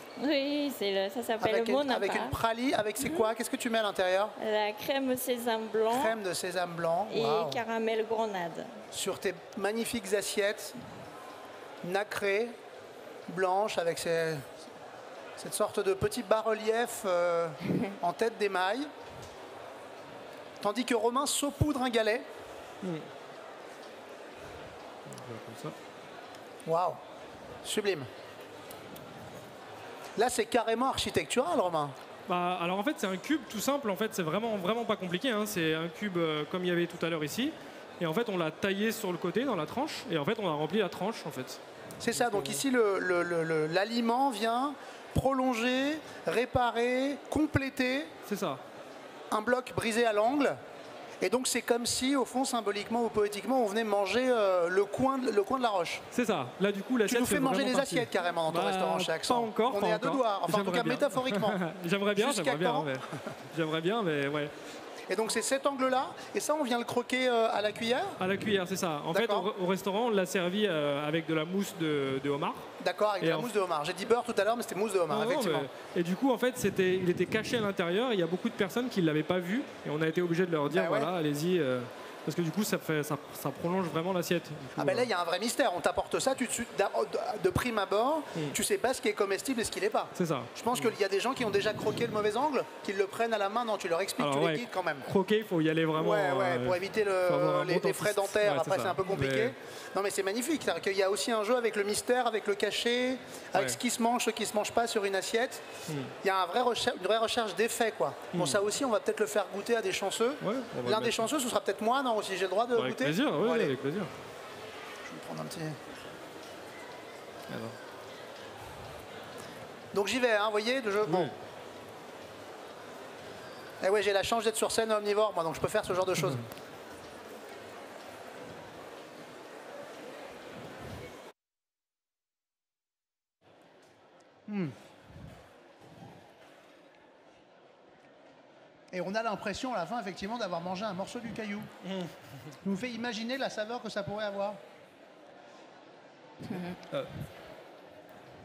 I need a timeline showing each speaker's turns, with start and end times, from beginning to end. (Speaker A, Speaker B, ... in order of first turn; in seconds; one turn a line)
Speaker A: 0.2-2.4
Speaker B: 1.4-4.3
Speaker A: 3.0-3.3
Speaker A: 4.4-6.2
Speaker B: 5.9-7.6
Speaker A: 7.1-8.7
Speaker B: 8.9-10.7
Speaker B: 11.8-12.5
Speaker B: 13.3-14.5
Speaker B: 15.4-18.9
Speaker B: 20.6-22.2
Speaker C: 22.8-23.1
Speaker C: 25.1-25.7
Speaker B: 26.6-27.0
Speaker B: 27.6-28.1
Speaker B: 30.1-31.9
Speaker C: 32.3-41.6
Speaker B: 42.0-48.1
Speaker C: 42.1-42.6
Speaker C: 48.2-48.6
Speaker B: 49.3-50.6
Speaker B: 51.2-56.0
Speaker C: 56.1-64.5
Speaker B: 57.0-61.6
Speaker B: 62.1-62.9
Speaker B: 65.1-68.2
Speaker C: 68.2-72.7
Speaker B: 69.1-69.5
Speaker B: 72.8-75.7
Speaker C: 73.2-73.5
Speaker C: 75.1-85.1
Speaker B: 80.7-81.1
Speaker B: 84.8-95.1
Speaker C: 90.1-90.9
Speaker C: 94.2-99.5
Speaker B: 96.0-105.6
Speaker C: 105.9-106.1
Speaker B: 106.2-113.7
Speaker C: 108.3-108.6
Speaker C: 110.4-111.2
Speaker C: 112.7-114.1
Speaker B: 115.0-115.8
Speaker C: 117.5-117.8
Speaker B: 119.9-121.3
Speaker C: 121.0-121.3
Speaker B: 123.8-126.4
Speaker B: 134.5-134.7
Speaker B: 138.9-141.7
Speaker C: 141.8-142.3
Speaker B: 142.6-144.6
Speaker A: 146.4-146.8